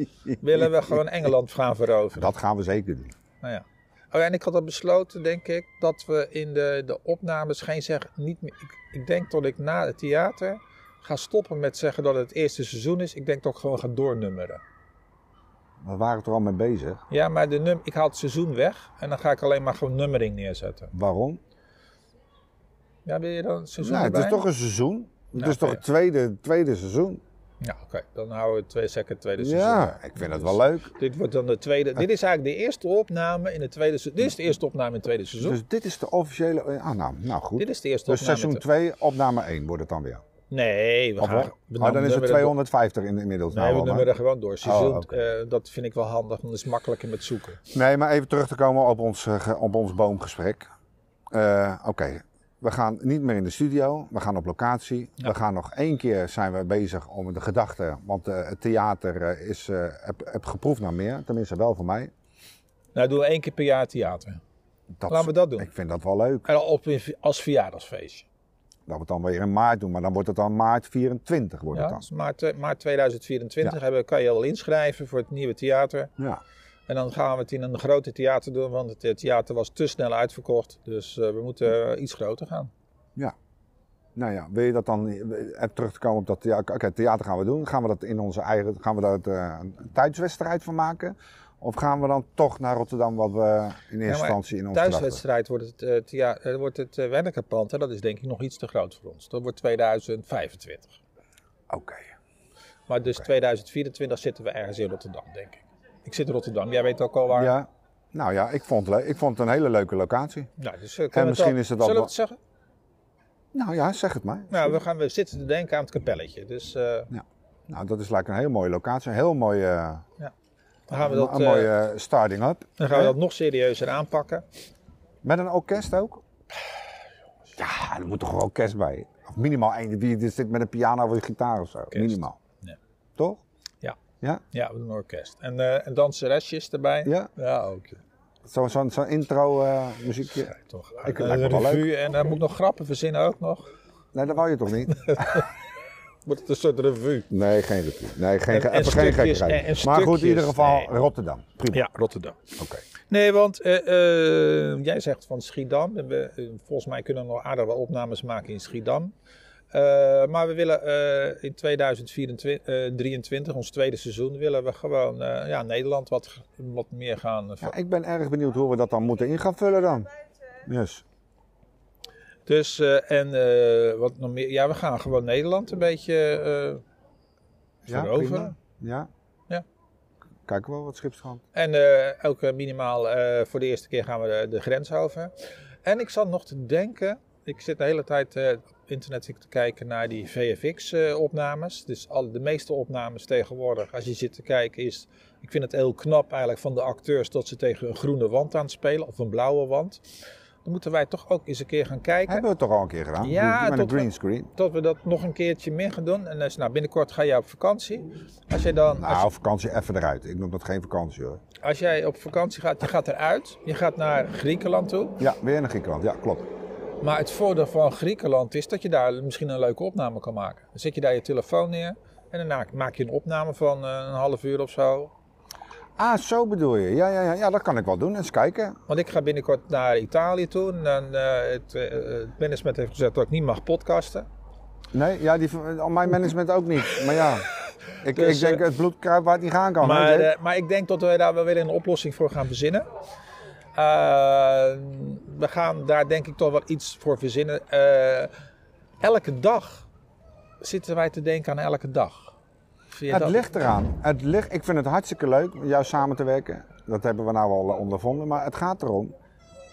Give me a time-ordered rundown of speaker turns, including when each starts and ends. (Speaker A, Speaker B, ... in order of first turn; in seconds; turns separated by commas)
Speaker A: 0.4-2.3, Speaker B: 2.2-3.1, Speaker A: 3.4-14.6, Speaker B: 15.8-17.0, Speaker A: 17.1-20.9, Speaker B: 20.9-21.4, Speaker A: 23.1-24.4, Speaker B: 23.8-27.2, Speaker A: 25.4-25.8, Speaker A: 27.6-35.6, Speaker B: 29.4-30.9, Speaker B: 35.4-40.2, Speaker A: 37.6-38.6, Speaker A: 40.5-42.5, Speaker B: 41.2-44.1, Speaker A: 43.5-47.6, Speaker B: 44.6-45.2, Speaker B: 47.7-50.7, Speaker B: 51.3-62.1, Speaker A: 62.9-64.4, Speaker B: 65.0-66.5, Speaker A: 65.1-65.7, Speaker A: 66.5-68.3, Speaker B: 68.8-72.0, Speaker A: 71.7-76.1, Speaker A: 76.9-82.7, Speaker B: 84.2-95.2, Speaker A: 94.0-101.0, Speaker B: 101.7-102.1, Speaker A: 102.9-107.5, Speaker B: 107.3-110.5, Speaker A: 110.6-112.4, Speaker B: 111.1-112.1, Speaker B: 113.5-114.8, Speaker A: 114.5-117.1, Speaker B: 117.1-120.0, Speaker A: 120.9-121.7, Speaker B: 121.0-123.2, Speaker A: 122.8-124.4, Speaker B: 125.2-126.2, Speaker B: 127.6-132.4, Speaker A: 131.9-132.8, Speaker B: 133.2-133.4, Speaker A: 134.5-138.0, Speaker B: 137.0-137.3, Speaker B: 138.4-140.5, Speaker A: 140.3-143.7, Speaker B: 141.0-141.8, Speaker B: 144.1-145.4, Speaker A: 145.0-145.4, Speaker A: 146.2-147.3, Speaker B: 147.3-151.8, Speaker A: 148.5-150.9, Speaker A: 151.7-152.4, Speaker B: 152.6-152.8, Speaker A: 153.1-159.1, Speaker A: 159.7-167.7, Speaker B: 167.6-170.1, Speaker B: 170.6-171.0, Speaker A: 172.5-176.8, Speaker B: 177.8-179.1, Speaker A: 177.9-178.5, Speaker B: 180.5-181.4, Speaker A: 181.5-185.3, Speaker A: 185.8-200.0, Speaker A: 200.6-202.4, Speaker B: 202.3-204.5, Speaker A: 203.2-209.3, Speaker B: 209.0-211.4, Speaker A: 211.6-215.2, Speaker B: 215.2-216.5, Speaker A: 217.0-225.1, Speaker B: 226.0-228.8, Speaker A: 228.9-234.3, Speaker B: 234.9-237.4, Speaker B: 238.0-240.3, Speaker A: 238.1-238.6, Speaker A: 239.8-242.8, Speaker A: 243.8-248.3, Speaker A: 249.0-249.9, Speaker A: 250.6-252.3, Speaker A: 252.9-253.5, Speaker B: 253.1-259.1